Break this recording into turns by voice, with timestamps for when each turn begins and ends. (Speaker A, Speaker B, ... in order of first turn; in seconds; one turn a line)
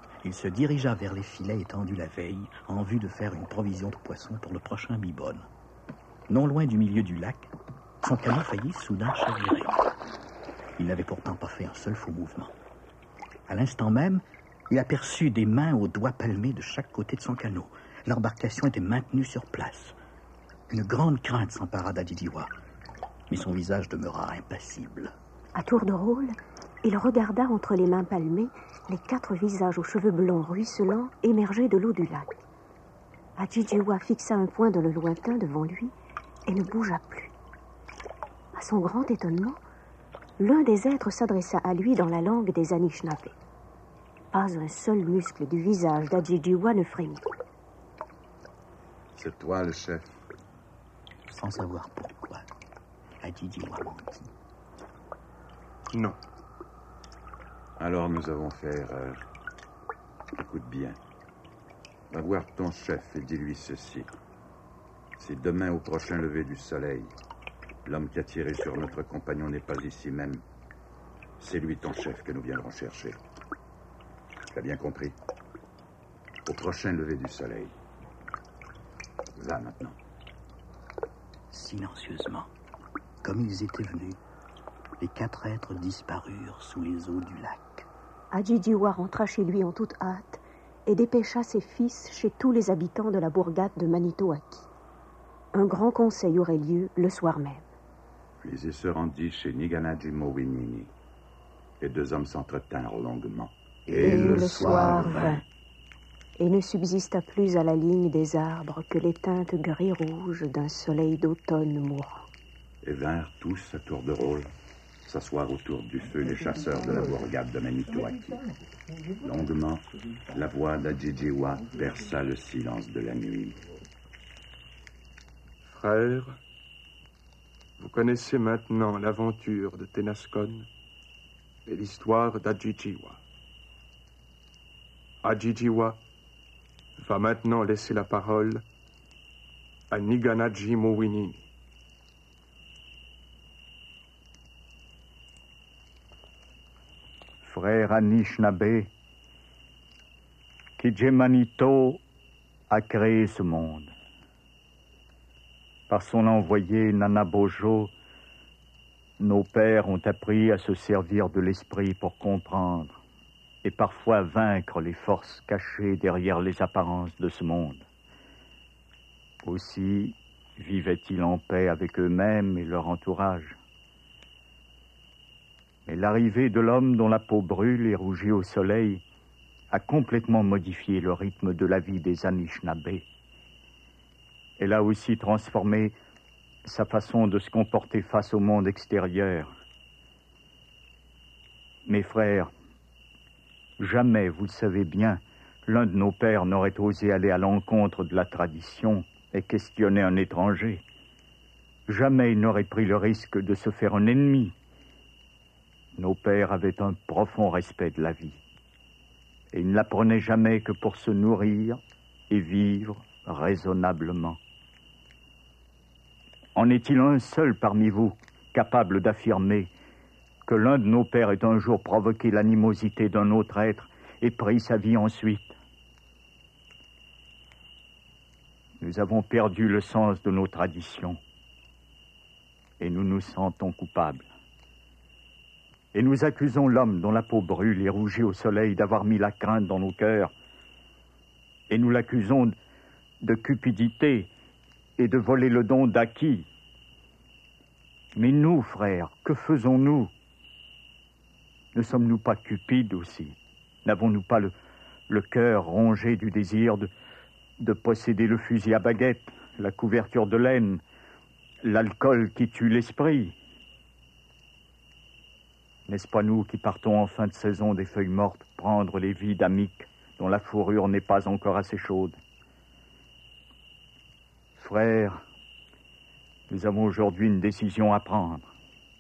Speaker A: 0.2-5.5
Speaker A: 6.3-9.8
Speaker A: 10.8-12.5
Speaker A: 13.5-20.0
Speaker A: 20.7-22.5
Speaker A: 23.3-25.1
Speaker B: 25.6-32.4
Speaker B: 33.4-35.9
Speaker B: 36.5-37.3
Speaker B: 38.5-39.6
Speaker B: 40.4-43.4
Speaker B: 44.3-47.2
Speaker C: 49.1-50.0
Speaker A: 51.3-52.5
Speaker A: 53.2-54.3
Speaker D: 55.9-56.2
Speaker C: 57.8-59.2
Speaker C: 60.4-61.0
Speaker C: 62.1-64.1
Speaker C: 65.2-67.1
Speaker C: 67.8-70.4
Speaker C: 71.4-73.2
Speaker C: 74.5-75.2
Speaker C: 76.5-77.7
Speaker C: 79.4-80.0
Speaker A: 81.5-82.5
Speaker A: 83.2-84.2
Speaker A: 85.0-87.9
Speaker B: 88.3-94.7
Speaker B: 95.5-97.7
Speaker C: 98.4-100.9
Speaker C: 101.8-105.4
Speaker B: 104.0-105.4
Speaker B: 106.4-112.3
Speaker C: 112.8-114.5
Speaker C: 115.1-118.5
Speaker C: 119.2-123.6
Speaker D: 125.6-126.4
Speaker D: 127.8-130.7
Speaker D: 131.7-133.2
Speaker D: 135.2-136.0
Speaker D: 137.0-138.6
Speaker D: 139.9-141.4
Speaker E: 147.4-148.9
Speaker E: 150.8-152.0
Speaker E: 152.7-153.9
Speaker E: 155.9-157.9
Speaker E: 159.2-163.0
Speaker E: 163.6-167.8
Speaker E: 169.4-173.6
Speaker E: 175.9-179.0
Speaker E: 179.7-183.1
Speaker E: 184.6-185.9
Speaker E: 186.7-189.5
Speaker E: 191.9-192.5
Speaker E: 193.8-200.8
Speaker E: 201.9-204.6
Speaker E: 206.0-208.4
Speaker E: 209.5-214.4
Speaker E: 216.6-219.7
Speaker E: 220.5-225.6
Speaker E: 228.8-231.2
Speaker E: 232.8-234.3
Speaker E: 235.9-240.3
Speaker E: 241.7-242.6
Speaker E: 243.2-244.3
Speaker E: 245.0-246.5
Speaker E: 248.2-250.1
Speaker E: 251.7-254.5
Speaker E: 255.1-256.9
Speaker E: 257.6-260.8
Speaker E: 261.6-263.4
Speaker E: 265.9-272.2
Speaker E: 274.6-275.2
Speaker E: 276.5-278.5